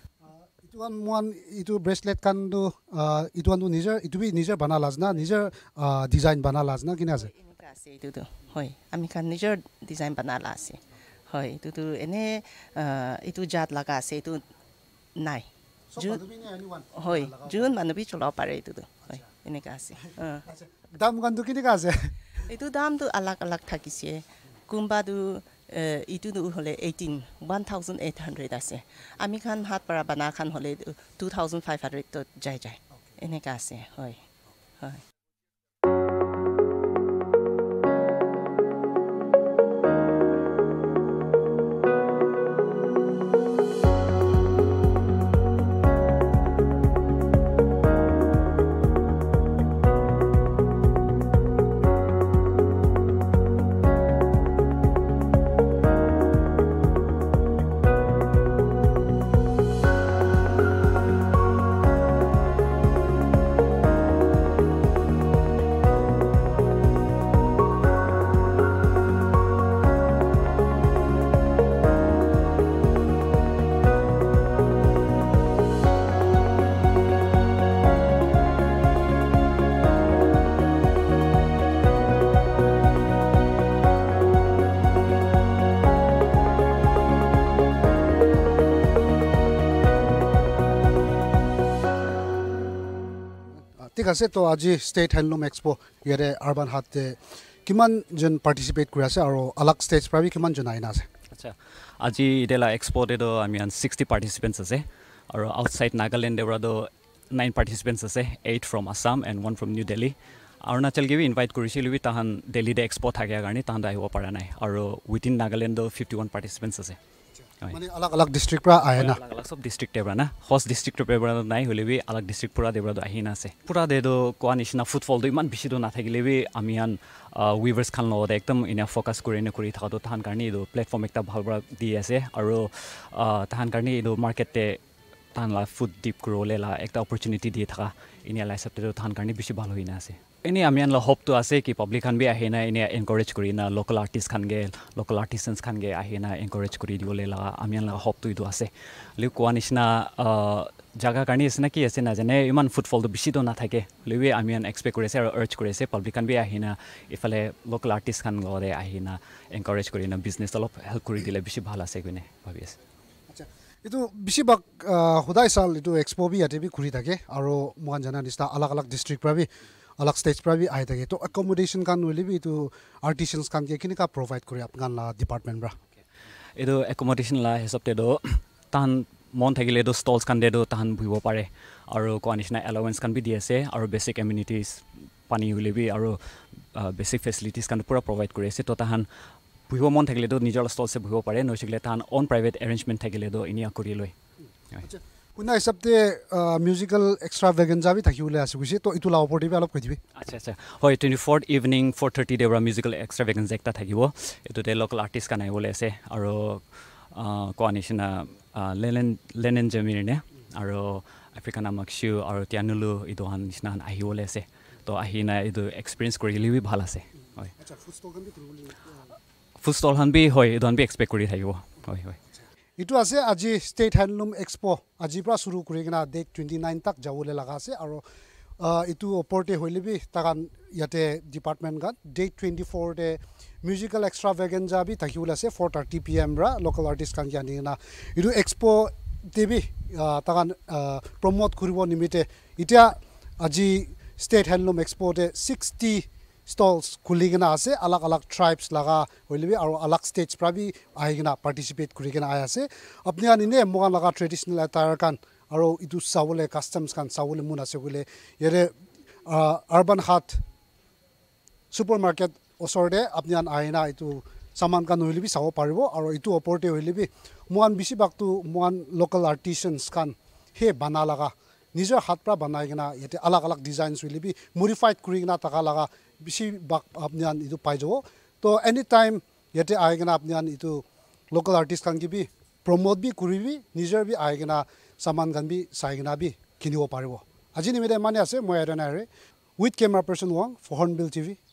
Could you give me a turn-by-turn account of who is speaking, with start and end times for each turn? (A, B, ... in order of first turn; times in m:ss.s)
0:00.2-0:07.3 A
0:07.2-0:14.4 B
0:15.2-0:16.2 B
0:15.9-0:17.8 A
0:16.9-0:20.4 B
0:20.5-0:22.2 A
0:22.4-0:34.2 B
1:33.8-1:41.0 A
1:41.3-1:57.0 C
1:57.6-1:59.2 A
1:58.9-2:14.8 C
2:15.3-2:42.8 C
2:43.3-2:49.5 A
2:50.0-2:55.8 A
2:56.6-3:06.2 C
3:06.7-3:09.1 C
3:09.7-3:14.1 C
3:14.8-3:20.0 A
3:20.2-3:26.6 C
3:27.1-3:37.5 C
3:37.6-3:38.9 A
3:39.6-3:42.2 C
3:42.8-3:48.0 A
3:48.6-4:18.7 A
4:19.2-4:20.4 A
4:21.7-4:49.1 A
4:49.6-4:51.4 A